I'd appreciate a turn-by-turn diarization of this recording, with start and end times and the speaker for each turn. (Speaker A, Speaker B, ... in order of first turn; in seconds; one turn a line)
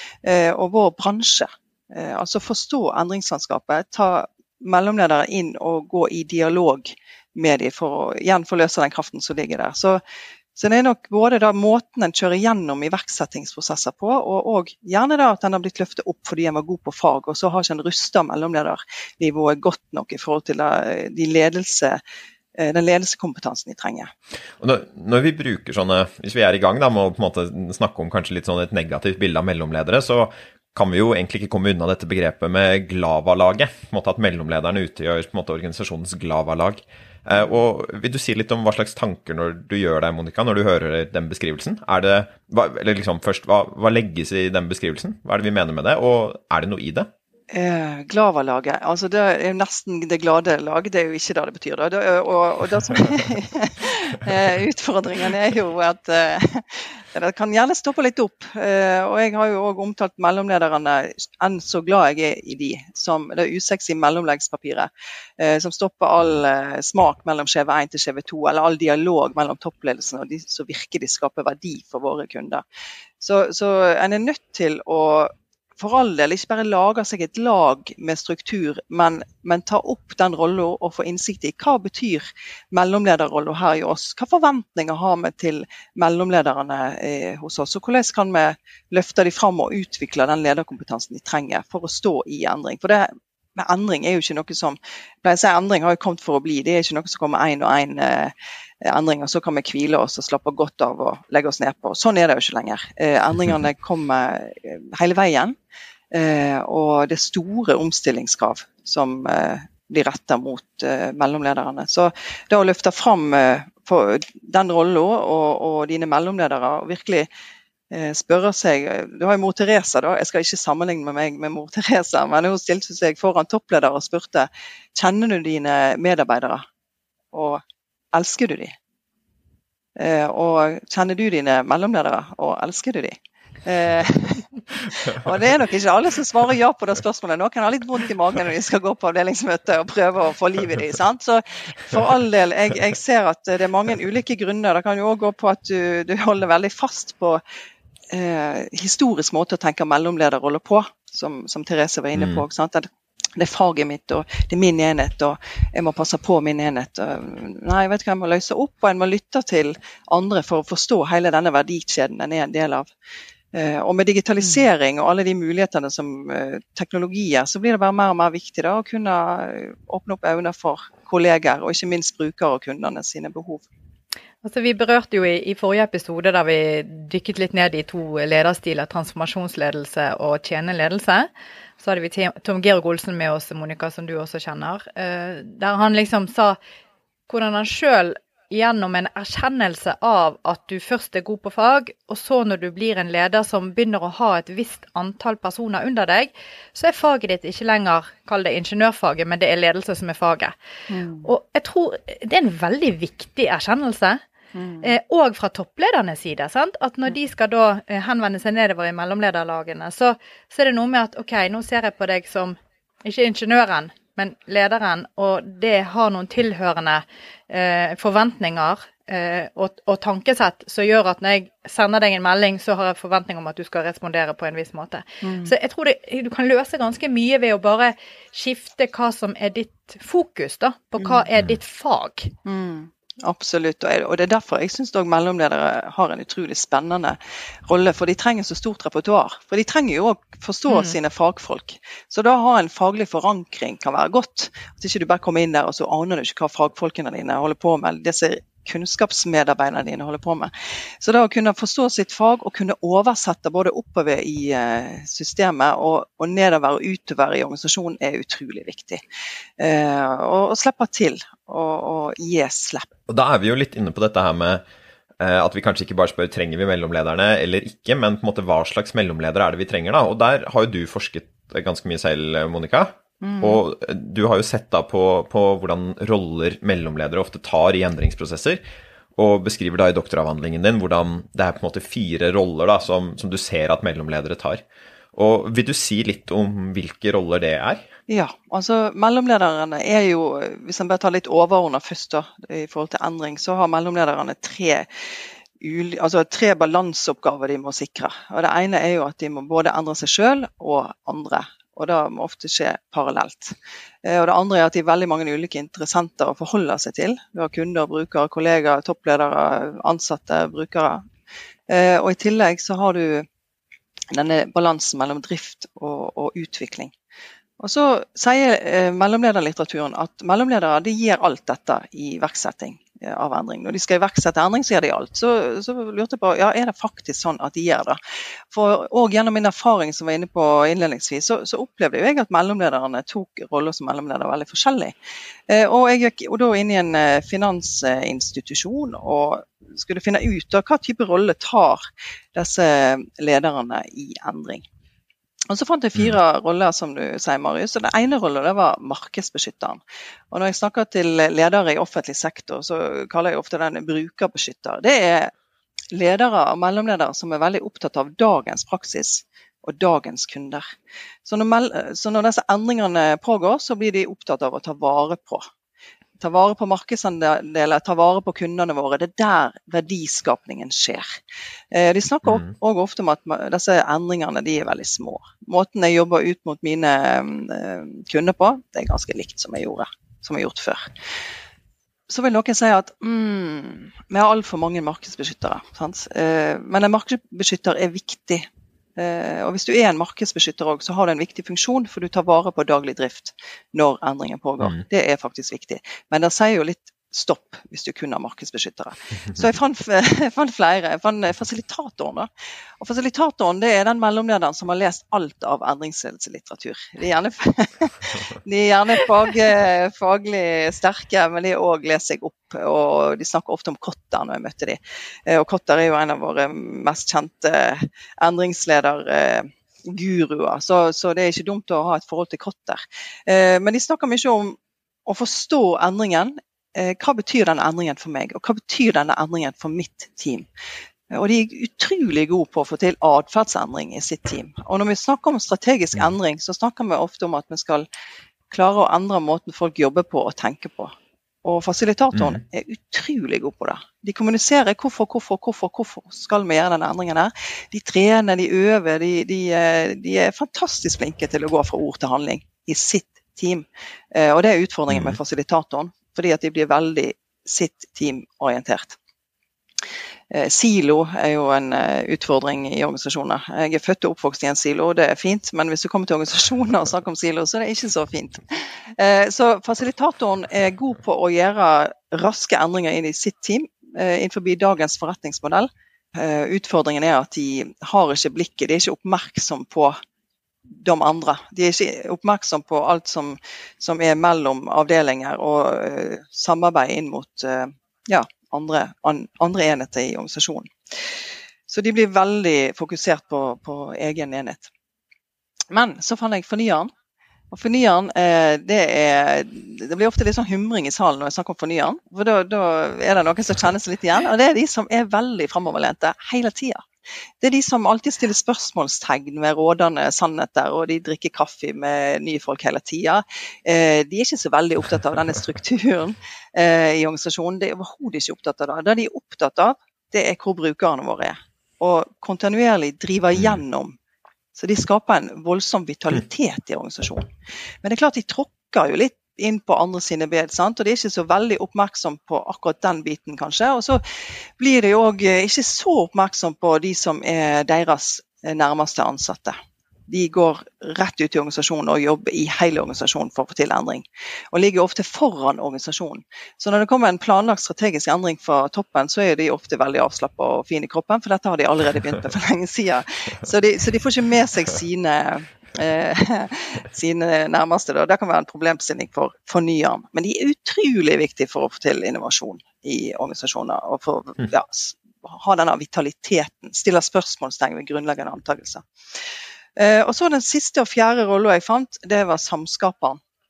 Speaker A: 0.2-10.0
Speaker A: 10.6-22.0
Speaker A: 22.6-24.1
Speaker B: 24.6-47.1
Speaker A: 47.5-72.6
Speaker A: 73.2-105.6
Speaker A: 106.1-117.3
Speaker A: 117.9-126.6
Speaker A: 127.3-127.6
Speaker A: 128.1-128.7
Speaker A: 130.0-147.4
Speaker A: 148.1-162.9
Speaker B: 152.2-152.4
Speaker A: 163.5-173.7
Speaker C: 174.4-181.3
Speaker C: 181.8-186.6
Speaker C: 187.3-200.5
Speaker A: 200.9-201.3
Speaker C: 201.2-204.2
Speaker A: 204.5-204.9
Speaker C: 204.8-232.3
Speaker A: 225.2-225.5
Speaker A: 232.4-259.0
Speaker C: 240.7-241.0
Speaker A: 259.6-262.9
Speaker B: 263.1-264.6
Speaker B: 265.2-278.6
Speaker A: 273.2-273.6
Speaker B: 279.2-284.6
Speaker B: 285.1-287.9
Speaker A: 288.1-294.9
Speaker A: 295.6-311.0
Speaker A: 311.7-313.3
Speaker A: 314.1-316.9
Speaker A: 317.6-328.0
Speaker A: 328.5-334.9
Speaker A: 335.5-341.8
Speaker A: 342.4-344.6
Speaker A: 345.5-349.8
Speaker A: 350.3-355.3
Speaker A: 355.9-360.6
Speaker A: 361.3-365.4
Speaker A: 366.2-371.2
Speaker A: 371.7-380.9
Speaker B: 372.2-372.5
Speaker A: 382.1-402.3
Speaker A: 402.8-430.5
Speaker A: 431.1-437.9
Speaker A: 438.5-440.9
Speaker A: 441.4-459.0
Speaker B: 442.1-442.4
Speaker B: 454.9-455.2
Speaker A: 460.3-480.0
Speaker A: 480.8-490.7
Speaker A: 491.7-494.7
Speaker A: 495.7-496.9
Speaker A: 497.5-506.9
Speaker A: 507.4-523.9
Speaker B: 523.3-523.6
Speaker A: 524.6-527.3
Speaker A: 527.8-534.0
Speaker A: 534.6-539.6
Speaker A: 540.1-568.8
Speaker A: 569.8-573.2